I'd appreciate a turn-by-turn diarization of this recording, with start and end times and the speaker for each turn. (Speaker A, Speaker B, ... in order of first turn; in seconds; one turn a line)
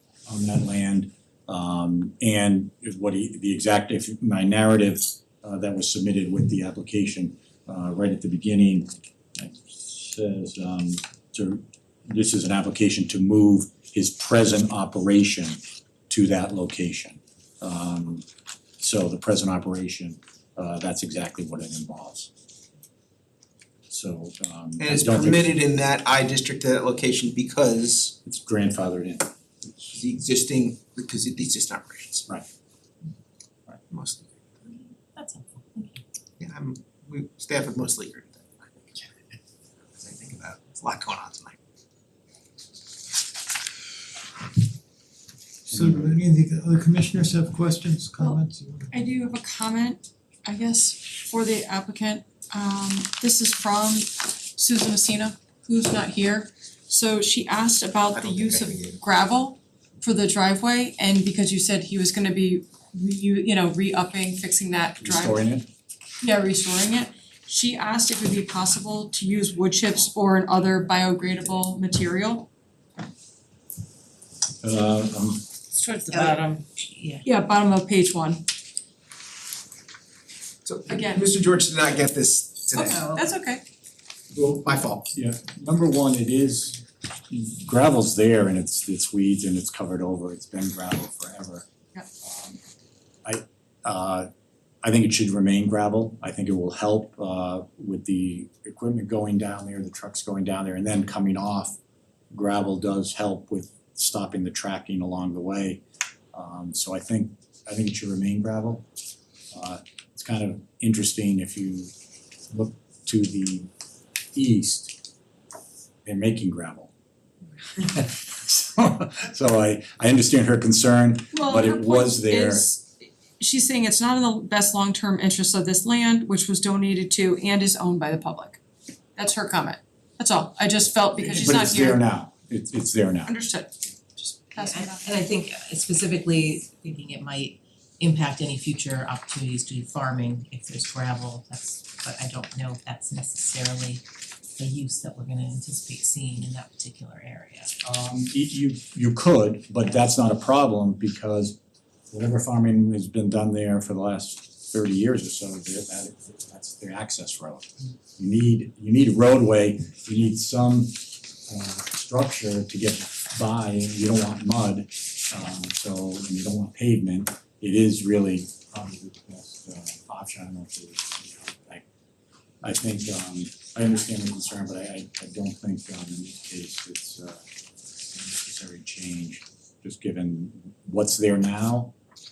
Speaker A: 0.3-18.2
Speaker A: 18.8-22.3
Speaker A: 23.9-25.6
Speaker B: 24.8-28.2
Speaker A: 28.2-29.3
Speaker B: 29.7-32.2
Speaker B: 33.9-34.3
Speaker C: 35.1-36.0
Speaker B: 36.4-39.1
Speaker B: 40.0-41.6
Speaker D: 45.7-48.9
Speaker A: 45.7-46.2
Speaker E: 48.9-65.4
Speaker B: 58.1-59.0
Speaker A: 65.0-65.7
Speaker E: 66.2-72.5
Speaker A: 74.6-75.4
Speaker E: 75.7-76.7
Speaker C: 76.1-77.3
Speaker E: 77.2-78.4
Speaker B: 80.7-83.0
Speaker E: 80.9-81.2
Speaker E: 82.7-83.6
Speaker C: 82.8-83.4
Speaker B: 84.3-85.1
Speaker A: 85.1-91.7
Speaker A: 92.2-92.6
Speaker A: 93.2-94.3
Speaker A: 94.8-101.8
Speaker A: 102.3-105.8
Speaker A: 106.3-108.9
Speaker A: 109.5-111.9
Speaker A: 112.5-113.7
Speaker A: 114.3-114.9
Speaker A: 116.0-116.9
Speaker A: 117.8-122.7
Speaker E: 121.3-128.6
Speaker E: 129.2-132.0
Speaker A: 131.2-133.3
Speaker E: 133.2-135.1
Speaker C: 134.5-144.0
Speaker C: 144.6-147.7
Speaker A: 147.8-151.6
Speaker A: 152.1-171.8
Speaker A: 172.6-177.4
Speaker A: 178.0-181.9